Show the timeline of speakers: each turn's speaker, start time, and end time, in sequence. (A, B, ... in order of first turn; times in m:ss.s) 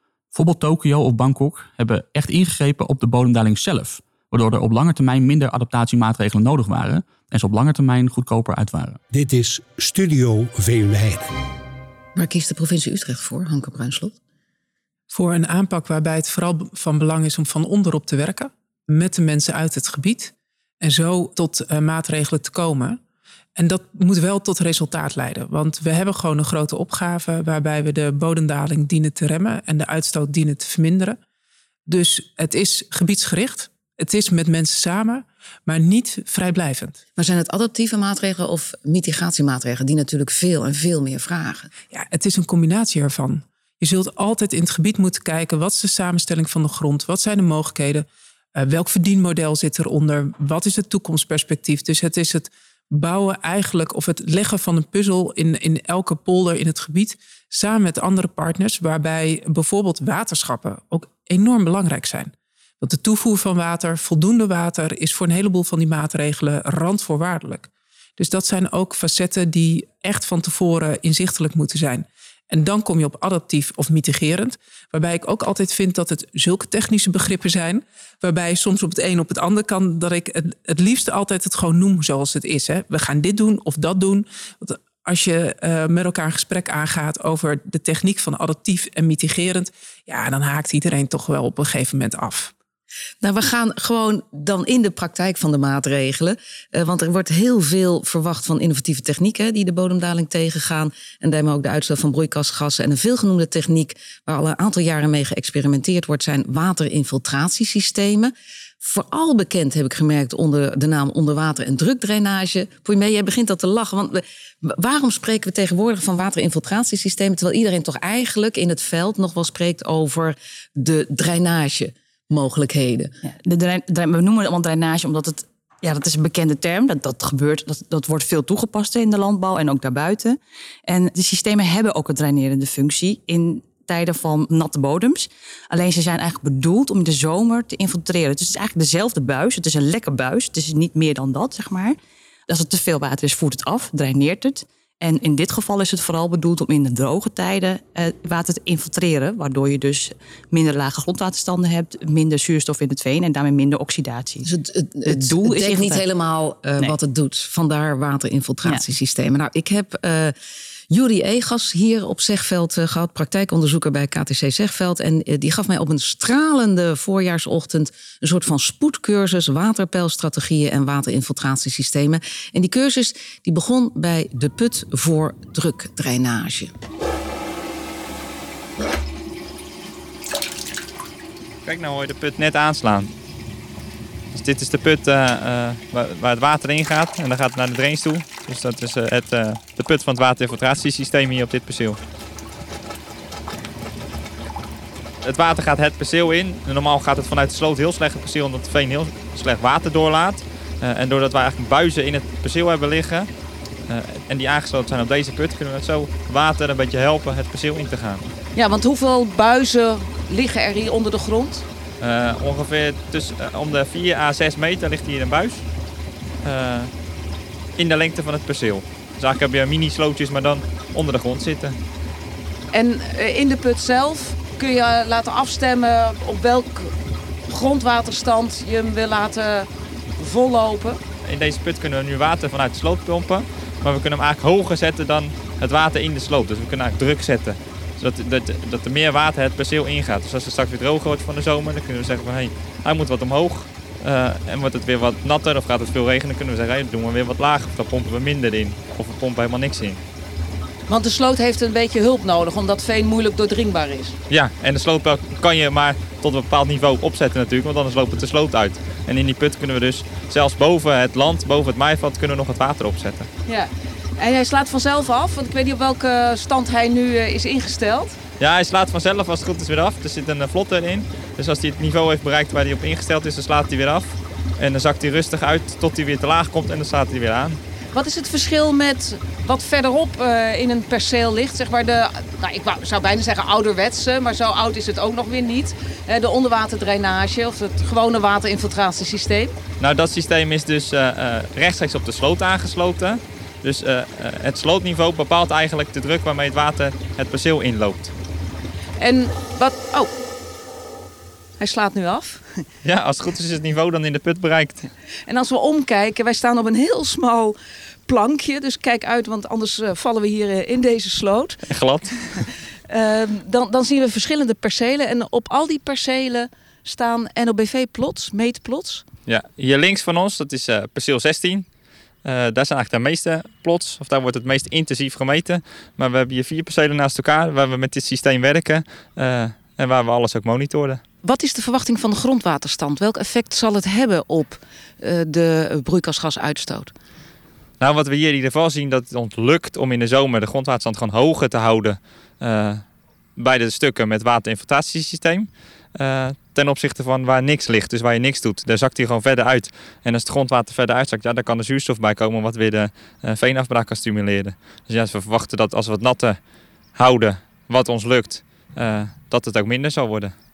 0:00.3-0:09.0 A
0:09.1-0:11.3 B
0:12.1-0:14.2 C
0:15.1-0:23.0 D
0:23.6-0:31.2 D
0:31.9-0:37.0 D
0:37.2-0:41.7 C
0:41.9-1:32.5 D
1:33.2-2:03.1 C
2:03.2-2:22.0 E
2:22.5-2:34.5 E
2:34.4-2:40.3 C
2:35.0-2:36.0 E
2:40.9-2:56.7 C
3:01.6-3:03.1 F
3:04.3-3:12.0 F
3:15.2-3:23.3 F
3:23.9-3:28.3 F
3:28.5-3:31.6 G
3:32.0-3:35.6 F
3:36.4-3:36.9 F
3:37.8-3:41.8 F
3:42.7-3:46.9 G
3:47.5-3:51.0 G
3:51.2-4:10.0 F
4:10.9-4:14.2 G
4:14.3-4:23.3 F
4:23.5-4:28.2 G
4:28.4-4:37.6 F
4:37.9-4:49.5 G
4:49.8-4:58.1 F
4:59.0-5:00.1 G
5:01.6-5:02.6 G
5:02.8-5:04.9 F
5:05.2-5:07.6 G
5:08.1-5:19.0 G
5:11.7-5:12.4 F
5:19.2-5:21.7 F
5:22.2-5:31.0 F
5:31.2-5:36.9 G
5:37.8-5:56.4 F
5:56.9-6:00.3 F